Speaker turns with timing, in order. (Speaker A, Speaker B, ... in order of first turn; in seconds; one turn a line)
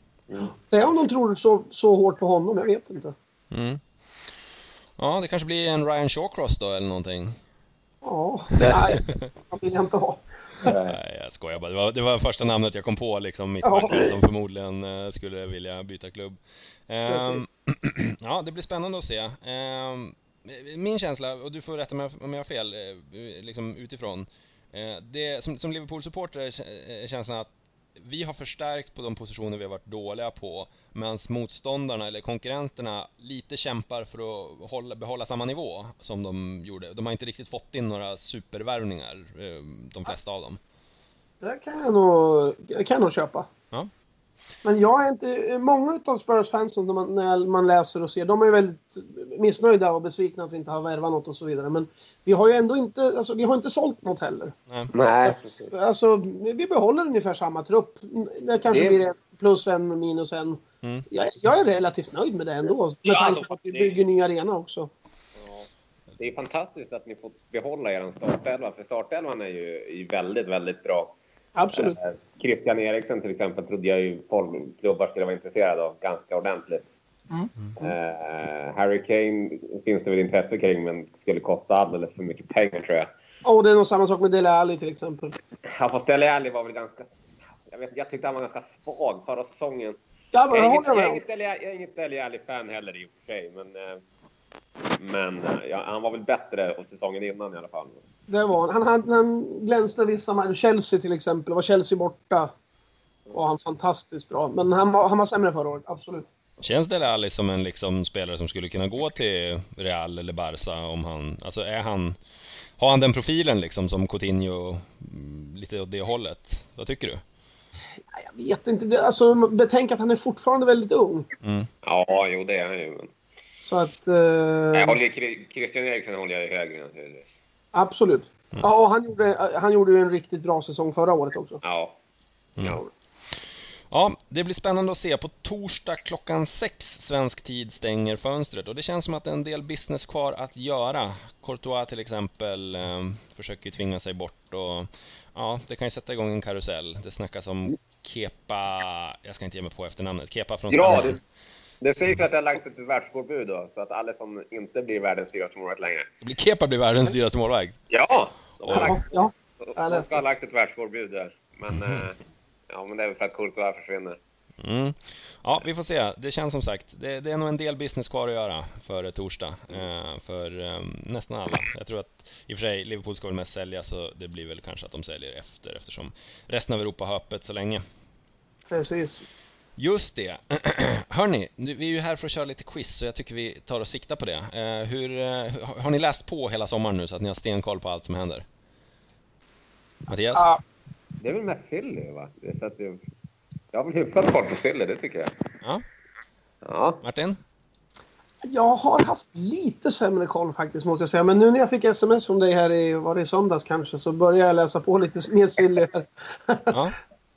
Speaker A: 0.6-3.1
Speaker B: 3.5-3.8
Speaker B: 5.0-7.4
Speaker A: 8.0-10.7
Speaker C: 10.6-11.0
Speaker B: 10.8-40.6
Speaker A: 13.6-14.2
Speaker A: 17.1-17.5
Speaker A: 41.4-43.5
Speaker A: 44.6-54.5
Speaker C: 54.9-55.7
Speaker A: 55.2-64.9
Speaker C: 58.7-59.0
Speaker C: 63.0-64.0
Speaker C: 65.4-71.2
Speaker A: 71.6-72.0
Speaker C: 71.7-76.9
Speaker A: 77.3-77.9
Speaker C: 77.8-83.1
Speaker A: 83.5-85.4
Speaker C: 85.7-87.1
Speaker C: 87.7-90.0
Speaker A: 90.3-91.2
Speaker C: 90.5-94.0
Speaker C: 95.0-98.0
Speaker A: 98.3-102.5
Speaker A: 103.3-106.3
Speaker B: 106.6-112.2
Speaker B: 112.8-117.2
Speaker A: 118.1-121.3
Speaker B: 121.4-121.7
Speaker C: 121.8-123.1
Speaker A: 123.6-125.0
Speaker C: 124.7-127.4
Speaker A: 127.7-131.6
Speaker C: 131.6-131.9
Speaker C: 132.6-132.9
Speaker B: 133.9-151.2
Speaker C: 150.7-151.2
Speaker C: 151.8-156.1
Speaker B: 156.2-157.8
Speaker C: 157.9-162.2
Speaker A: 158.7-160.1
Speaker B: 161.7-162.0
Speaker C: 162.7-164.2
Speaker B: 164.6-177.8
Speaker A: 178.7-179.2
Speaker B: 179.8-188.4
Speaker B: 190.1-190.5
Speaker A: 190.3-190.6
Speaker C: 191.2-193.0
Speaker C: 193.7-195.3
Speaker C: 196.6-197.0
Speaker B: 197.0-197.4
Speaker A: 198.4-206.8
Speaker B: 206.7-207.0